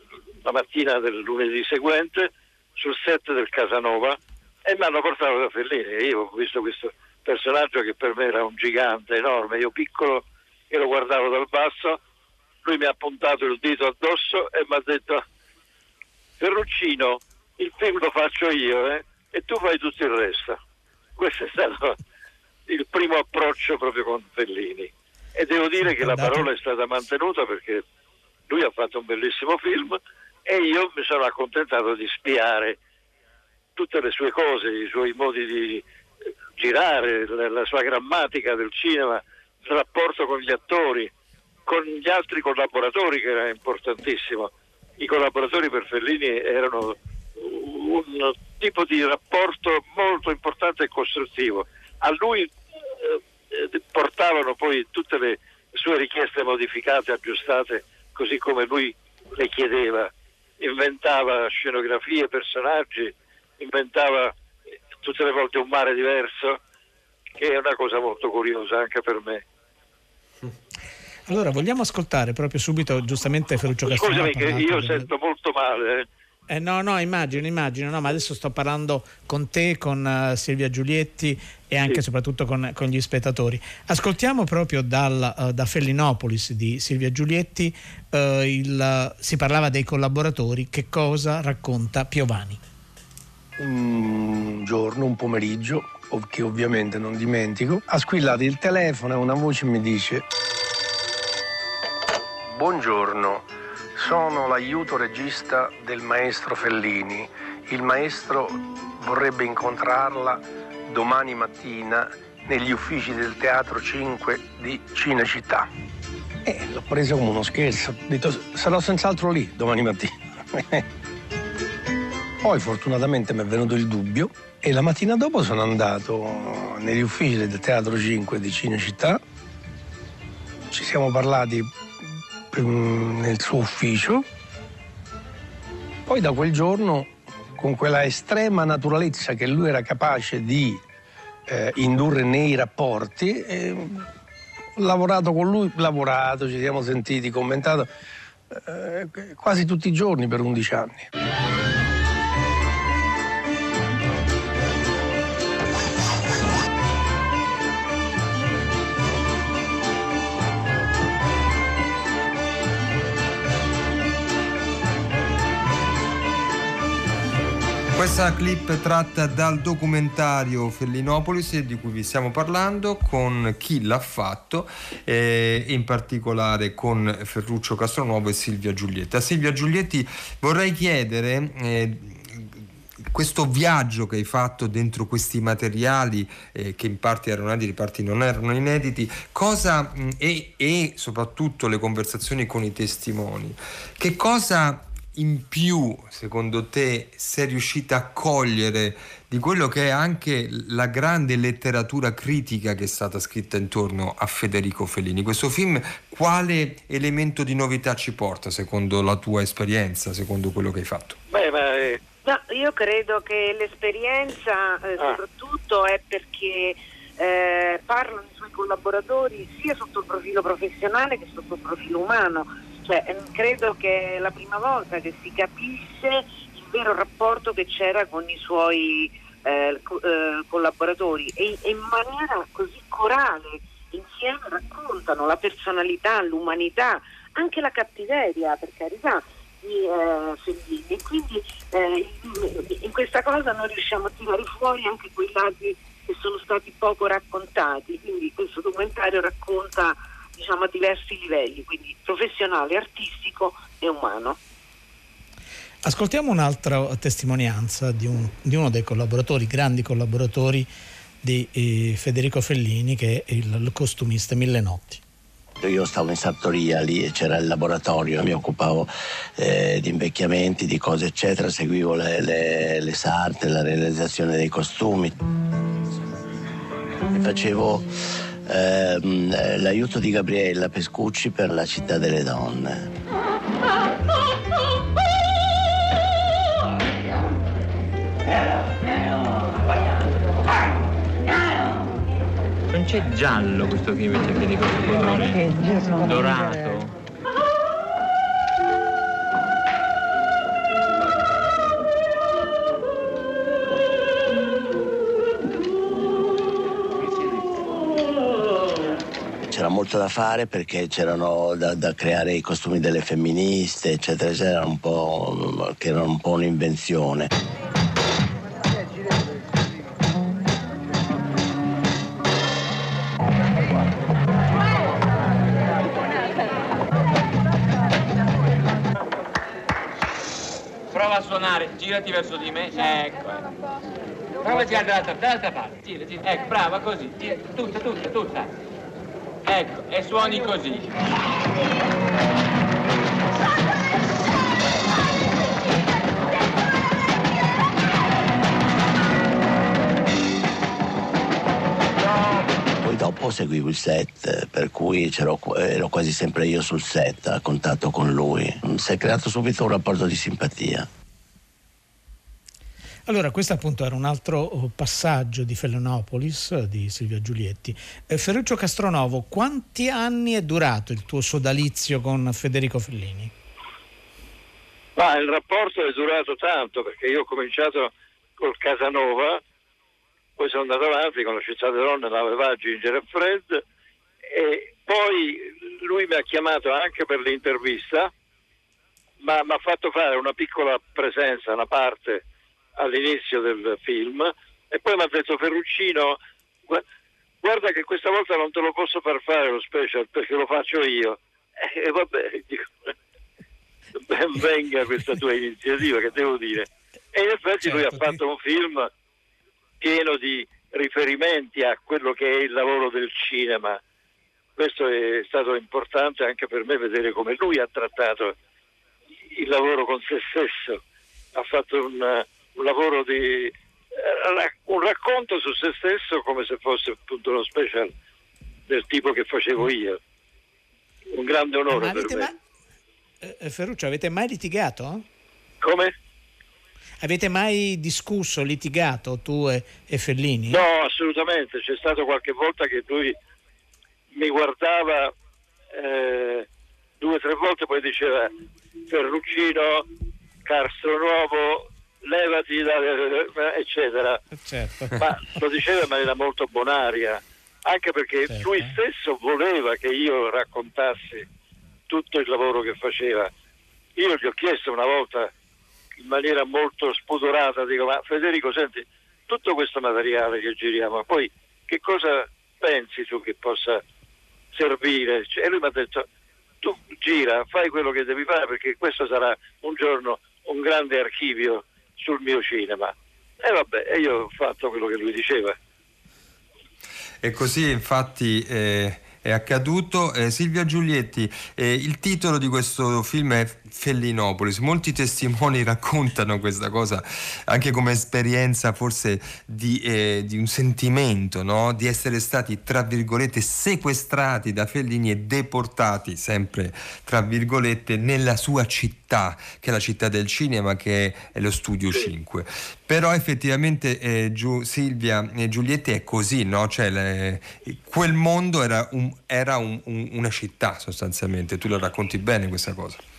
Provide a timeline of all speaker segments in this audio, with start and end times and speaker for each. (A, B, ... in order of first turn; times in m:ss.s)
0:00.4-0:12.0 A
0:12.6-0:15.2 A
0:16.4-0:20.6 A
0:21.2-0:22.0 A
0:22.7-0:27.8 A
0:25.8-0:26.5 B
0:28.5-0:32.8 A
0:33.8-0:35.8 A
0:36.6-0:41.1 A
0:41.7-1:04.3 A
1:05.0-1:06.6 A
1:07.4-1:09.4 A
1:11.3-1:15.1 B
1:13.8-1:16.1 A
1:16.5-1:32.6 B
1:33.6-1:40.3 C
1:42.5-1:55.7 C
1:56.4-2:00.8 C
2:02.4-2:09.2 C
2:10.7-2:11.7 C
2:12.5-2:14.3 C
2:16.1-2:20.8 C
2:21.5-2:24.1 C
2:24.8-2:27.9 C
2:28.5-2:31.1 C
2:48.0-3:31.2 D
3:31.3-3:32.0 A
3:32.2-4:14.4 E
4:15.8-4:20.7 B
4:21.2-4:25.0 B
4:25.6-4:35.1 F
4:37.1-4:37.9 F
4:38.5-4:42.9 F
4:52.7-4:56.9 G
5:09.5-5:17.3 F
5:30.9-5:33.4 G
5:34.4-5:38.5 G
5:39.4-5:40.9 G
5:52.8-6:00.9 F
6:03.1-6:13.3 B
6:15.0-6:19.4 A
6:20.4-6:23.6 A
6:24.3-6:28.1 A
6:29.2-6:32.2 A
6:32.8-6:36.8 A
6:37.4-6:42.7 A
6:44.0-6:48.9 A
6:47.7-6:48.2 B
6:49.8-6:53.8 A
6:54.6-6:58.4 A
6:59.3-7:00.8 A
7:01.4-7:07.9 A
7:08.7-7:10.0 A
7:11.1-7:12.3 A
7:11.7-7:12.4 B
7:13.2-7:15.1 B
7:15.6-7:15.9 A
7:17.0-7:20.6 B
7:20.5-7:23.2 A
7:24.1-7:25.1 A
7:25.7-7:26.5 A
7:27.0-7:28.3 A
7:28.9-7:29.9 A
7:30.4-7:34.2 A
7:34.3-7:35.0 B
7:35.0-7:41.3 A
7:38.3-7:38.8 B
7:41.9-7:43.3 A
7:44.0-7:45.3 A
7:46.0-7:53.8 A
7:54.5-7:56.1 A
7:56.6-8:05.6 A
8:07.2-8:43.0 D